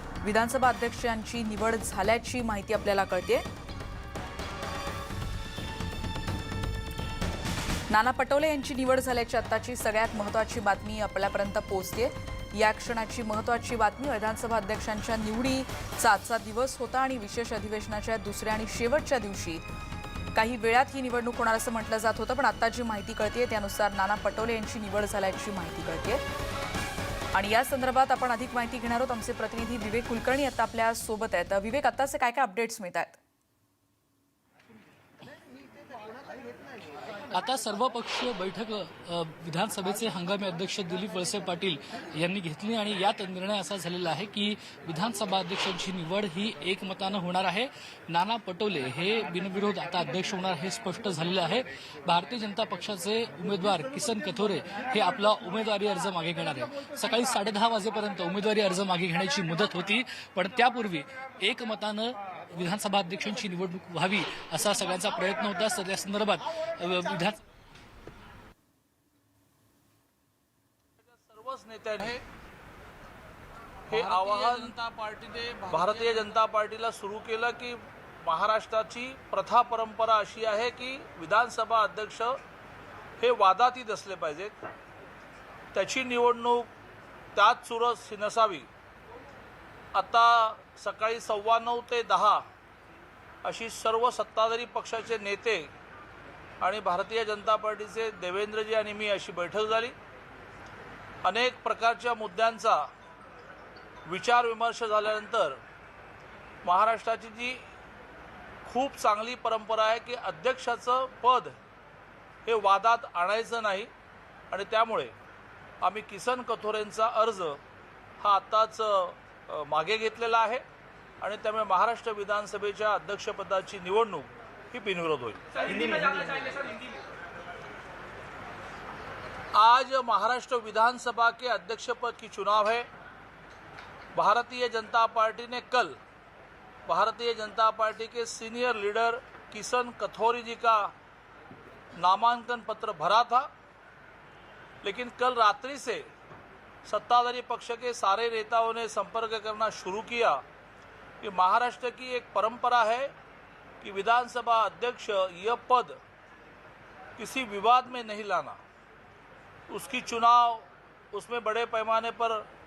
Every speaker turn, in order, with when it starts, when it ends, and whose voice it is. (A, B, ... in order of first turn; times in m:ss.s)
0:00.2-0:03.4 A
0:07.9-0:19.6 A
0:20.3-0:26.2 A
0:27.3-0:33.2 A
0:37.3-1:07.4 B
1:11.0-1:12.2 C
1:13.9-1:14.8 C
1:13.9-1:16.4 D
1:15.7-1:22.4 C
1:23.2-1:24.6 C
1:25.7-1:26.7 C
1:27.4-1:28.7 C
1:29.9-1:32.4 C
1:33.4-1:35.7 C
1:36.6-1:40.0 C
1:41.2-1:42.9 C
1:44.1-1:45.6 C
1:46.6-1:47.6 C
1:48.7-1:51.6 C
1:52.5-1:53.9 C
1:54.5-1:55.1 C
1:55.8-1:57.6 C
1:58.2-2:00.6 C
2:01.2-2:06.3 C
2:05.7-2:06.7 D
2:09.5-2:12.9 C
2:14.2-2:16.0 C
2:16.9-2:20.9 C
2:22.0-2:23.5 C
2:24.8-2:26.1 C
2:26.8-2:30.4 C
2:31.2-2:33.1 C
2:33.8-2:36.0 C
2:37.2-2:38.6 C
2:39.7-2:42.5 C